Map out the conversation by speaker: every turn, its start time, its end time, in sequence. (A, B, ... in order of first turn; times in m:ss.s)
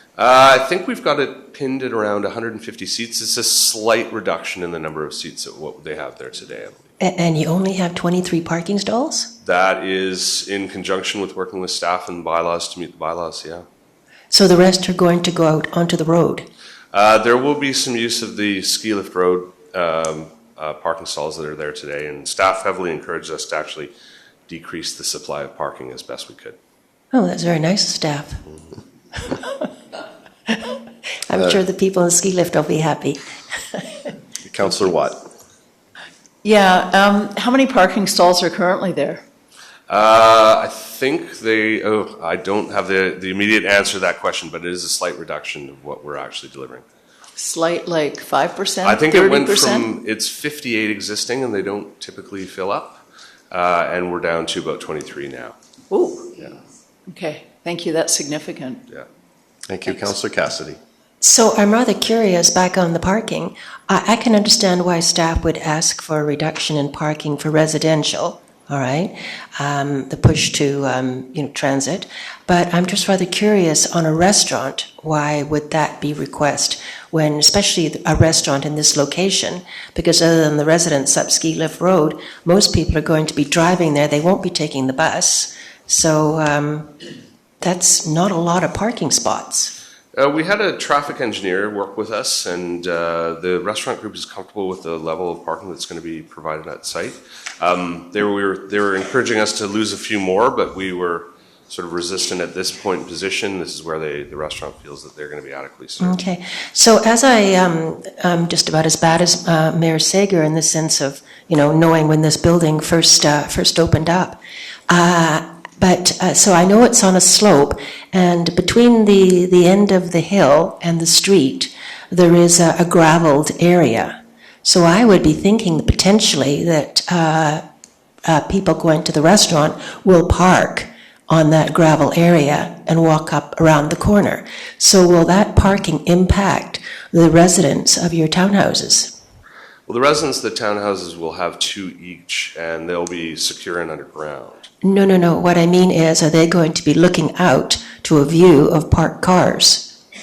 0:00.2-0:06.8 A
0:07.0-0:09.3 B
0:09.4-0:13.6 A
0:14.3-0:16.5 B
0:16.9-0:23.9 A
0:24.5-0:26.6 A
0:27.1-0:28.4 B
0:29.2-0:29.7 B
0:30.5-0:33.2 B
0:34.4-0:35.3 C
0:36.4-0:39.2 D
0:39.9-0:46.8 A
0:47.4-0:49.9 D
0:48.8-0:55.6 A
0:55.9-0:56.4 D
0:57.1-0:58.8 D
0:59.7-1:00.8 C
1:01.2-1:27.0 B
1:27.6-1:29.7 B
1:30.1-1:46.2 A
1:46.0-2:07.6 B
2:08.2-2:19.1 B
2:19.9-2:24.7 A
2:24.8-2:30.0 B